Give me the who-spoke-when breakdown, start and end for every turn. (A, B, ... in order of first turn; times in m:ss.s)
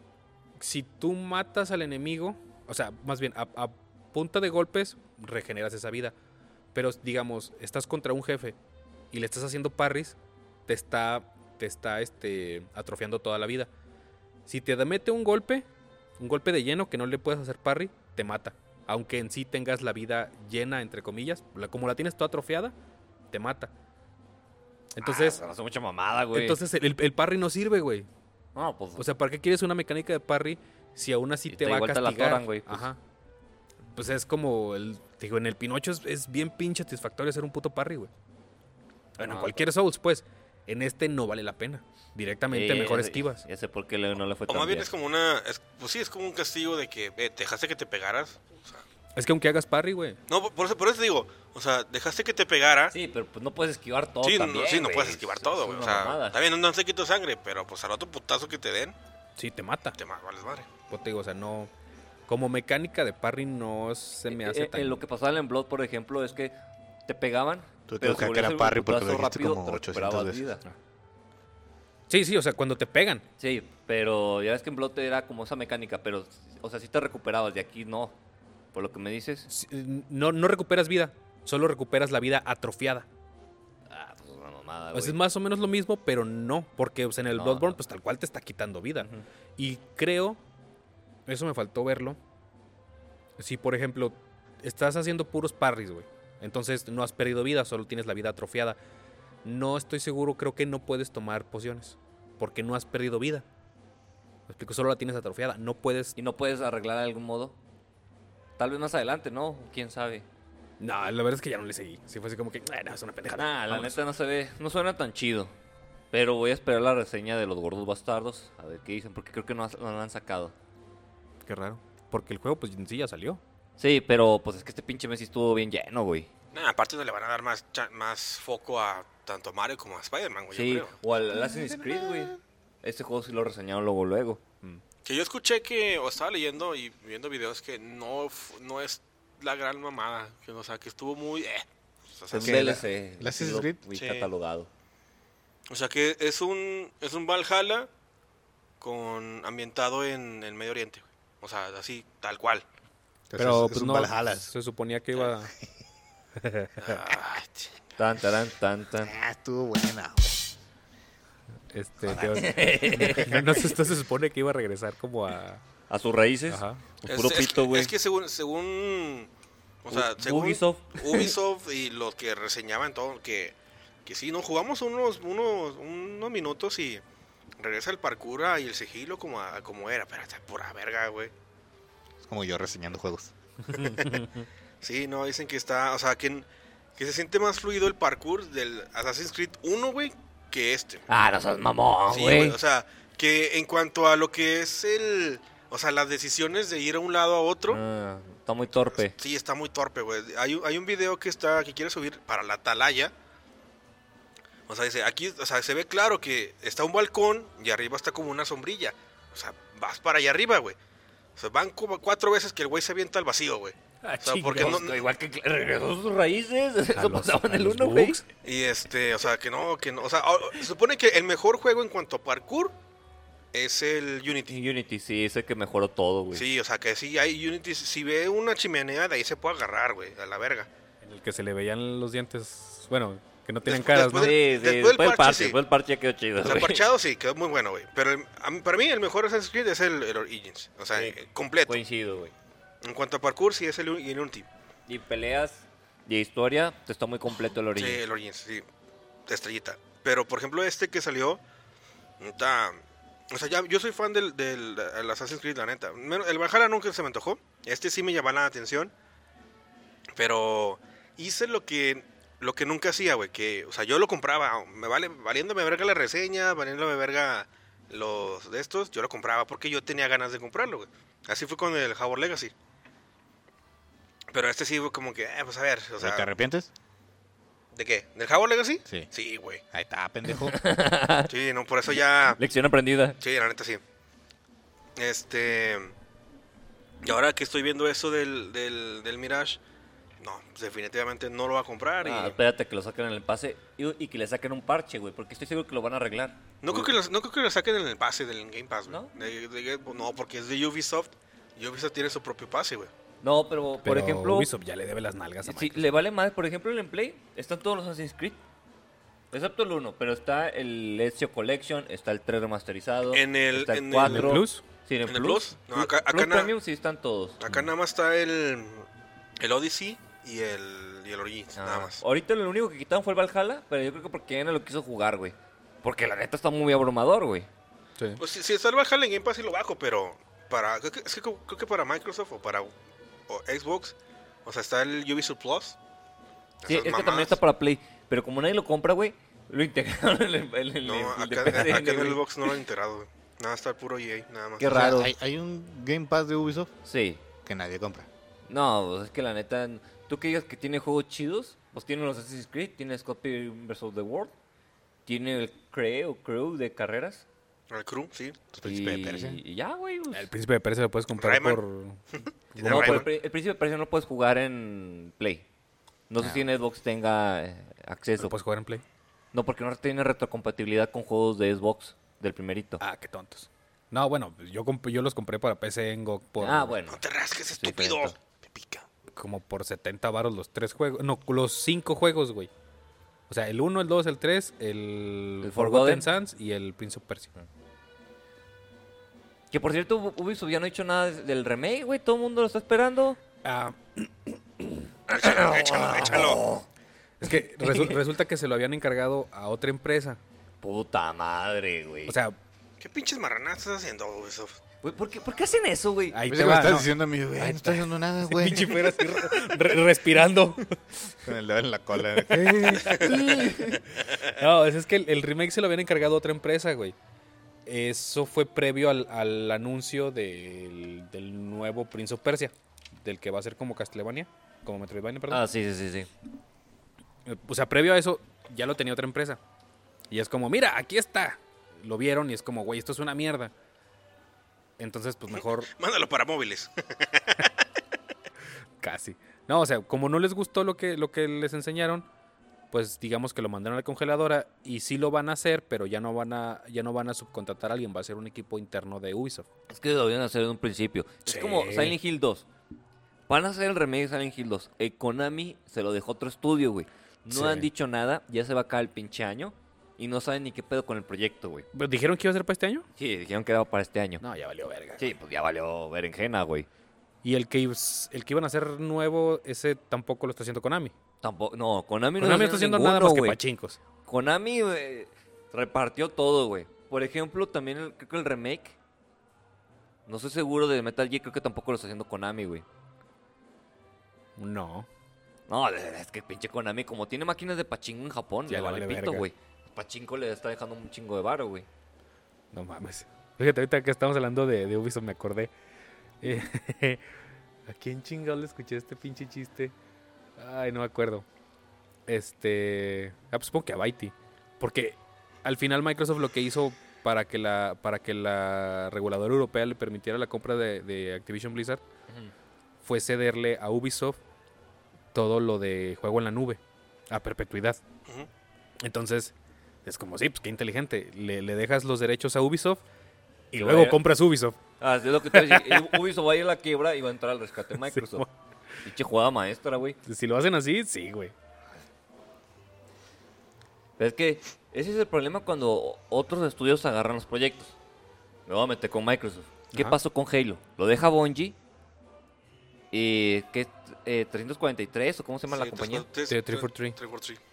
0:00.6-0:06.1 A
0:06.7-0:08.6 A
0:09.1-0:13.7 A
0:14.5-0:15.7 A
0:16.2-0:22.7 A
0:23.3-0:23.7 A
0:24.9-0:25.4 A
0:25.0-0:26.6 B
0:26.3-0:28.1 A
0:28.5-0:29.0 B
0:29.0-0:33.0 A
0:31.5-0:32.9 B
0:33.9-0:38.1 A
0:39.2-0:43.4 A
0:39.2-0:39.6 B
0:42.5-0:44.9 B
0:44.5-0:48.8 C
0:49.1-0:50.2 A
0:50.3-0:52.9 C
0:52.9-0:56.4 B
0:54.2-0:58.9 C
0:59.4-1:00.0 A
1:00.0-1:00.7 C
1:00.9-1:01.7 A
1:02.3-1:05.0 A
1:04.3-1:10.6 B
1:07.9-1:10.4 D
1:12.1-1:13.2 A
1:13.4-1:18.2 B
1:18.7-1:19.5 B
1:19.5-1:23.1 A
1:23.9-1:25.2 B
1:24.9-1:30.4 A
1:27.3-1:27.8 B
1:29.0-1:29.2 B
1:31.2-1:32.2 A
1:33.4-1:38.8 A
1:39.4-1:43.4 A
1:44.5-1:46.1 A
1:46.2-1:47.6 B
1:48.6-1:50.2 B
1:50.8-1:54.0 A
1:53.3-1:55.5 B
1:56.1-2:00.5 B
2:01.4-2:03.4 A
2:03.8-2:06.3 B
2:06.5-2:11.0 C
2:10.5-2:14.4 B
2:11.3-2:12.3 D
2:15.0-2:22.8 C
2:22.3-2:24.7 B
2:22.3-2:23.8 D
2:23.9-2:24.3 C
2:25.7-2:27.9 C
2:28.8-2:32.6 C
2:33.3-2:34.5 D
2:33.4-2:35.5 A
2:36.4-2:37.0 A
2:36.8-2:37.8 C
2:38.0-2:39.1 B
2:39.0-2:40.4 D
2:41.7-2:45.6 A
2:42.0-2:43.4 D
2:42.2-2:43.4 B
2:45.9-2:47.9 B
2:46.5-2:46.8 A
2:47.0-2:49.3 C
2:49.8-2:57.0 C
2:49.9-2:51.3 B
2:57.6-3:01.3 C
3:02.2-3:03.3 D
3:03.7-3:04.4 A
3:03.8-3:04.2 C
3:04.8-3:06.4 C
3:07.0-3:11.0 C
3:11.1-3:12.6 B
3:12.1-3:17.8 C
3:17.7-3:19.1 B
3:18.8-3:23.1 C
3:24.7-3:30.8 C
3:31.4-3:35.0 C
3:34.0-3:34.8 A
3:34.5-3:38.2 B
3:36.9-3:38.2 A
3:38.4-3:42.7 C
3:43.5-3:44.6 C
3:44.5-3:46.4 B
3:46.3-3:50.7 C
3:51.0-3:54.3 A
3:53.6-3:55.6 C
3:54.1-3:56.9 B
3:56.4-4:01.8 C
4:00.9-4:02.3 B
4:02.8-4:04.5 C
4:04.9-4:08.0 B
4:07.7-4:08.6 C
4:09.3-4:11.4 C
4:12.2-4:12.8 C
4:13.3-4:18.9 C
4:20.2-4:32.5 C
4:34.3-4:36.3 C
4:36.0-4:36.7 D
4:37.7-4:39.6 C
4:39.7-4:40.6 D
4:40.4-4:41.3 B
4:41.3-4:42.4 C
4:42.4-4:43.2 B
4:43.2-4:43.8 C
4:45.0-4:45.9 C
4:47.0-4:49.6 C
4:50.2-4:52.4 C
4:52.0-4:56.9 B
4:56.6-5:02.9 C
5:03.2-5:04.5 B
5:03.8-5:05.9 A
5:05.4-5:08.4 B
5:09.3-5:17.4 B
5:13.1-5:14.4 C
5:14.0-5:14.6 A
5:15.0-5:16.5 C
5:17.4-5:18.9 C
5:19.4-5:22.0 C
5:21.6-5:27.5 B
5:28.2-5:32.7 C
5:33.3-5:35.8 C
5:36.6-5:37.4 C
5:36.7-5:42.5 B
5:40.8-5:44.7 C
5:44.6-5:45.1 B
5:44.6-5:46.7 D
5:46.8-5:47.2 B
5:47.4-5:48.1 D
5:48.5-5:54.3 B
5:55.0-5:57.2 B
5:57.7-5:58.4 C
5:58.5-5:59.4 D
5:58.6-6:00.3 B
6:00.1-6:02.0 A
6:01.1-6:01.6 C
6:02.1-6:03.1 C
6:02.5-6:03.0 A
6:02.6-6:05.4 B
6:06.1-6:08.3 B
6:06.2-6:06.5 D
6:08.2-6:08.8 A
6:09.3-6:12.8 B
6:12.8-6:16.8 A
6:16.4-6:17.0 B
6:16.9-6:18.8 C
6:17.6-6:18.1 B
6:19.1-6:22.5 A
6:23.3-6:27.3 A
6:25.4-6:26.1 B
6:29.5-6:33.2 B
6:33.4-6:34.8 A
6:35.1-6:36.5 C
6:35.1-6:36.6 B
6:37.2-6:40.2 A
6:37.6-6:38.0 B
6:40.6-6:42.1 B
6:42.1-6:42.4 A
6:42.8-6:44.6 C
6:44.8-6:46.2 B
6:46.1-6:50.8 A
6:46.3-6:49.0 D
6:51.2-6:53.6 D
6:52.3-6:53.7 A
6:52.9-6:53.1 C
6:53.0-6:53.8 B
6:54.3-6:56.9 A
6:57.6-7:05.4 A
7:05.3-7:06.1 B
7:07.2-7:09.4 A
7:10.1-7:13.5 A
7:14.8-7:15.7 A
7:15.4-7:17.5 C
7:18.8-7:22.0 A
7:22.7-7:29.5 A
7:29.7-7:32.5 B
7:31.2-7:32.0 A
7:33.3-7:41.6 B
7:37.3-7:37.7 A
7:41.7-7:42.9 A
7:42.9-7:44.2 B
7:44.2-7:45.1 A
7:45.0-7:46.7 B
7:47.2-7:50.9 A
7:51.2-7:53.4 B
7:52.2-7:53.8 A
7:54.0-7:58.8 B
8:00.0-8:02.6 B
8:04.4-8:04.9 A
8:05.5-8:11.7 B
8:08.5-8:09.2 A
8:12.5-8:15.5 A
8:16.2-8:17.0 A
8:17.7-8:19.7 A
8:20.4-8:21.2 A
8:22.1-8:31.8 A
8:32.1-8:32.3 B
8:32.8-8:34.2 A
8:35.1-8:37.8 A
8:38.8-8:39.3 A
8:39.8-8:42.8 A
8:43.5-8:44.6 A
8:43.5-8:44.0 B
8:44.8-8:48.2 B
8:45.3-8:46.0 A
8:47.8-8:48.3 A
8:48.8-8:50.0 B
8:50.0-8:51.3 A
8:54.0-8:57.7 B
8:58.4-9:01.6 B
9:02.9-9:06.0 B
9:05.5-9:07.4 C
9:06.3-9:07.0 A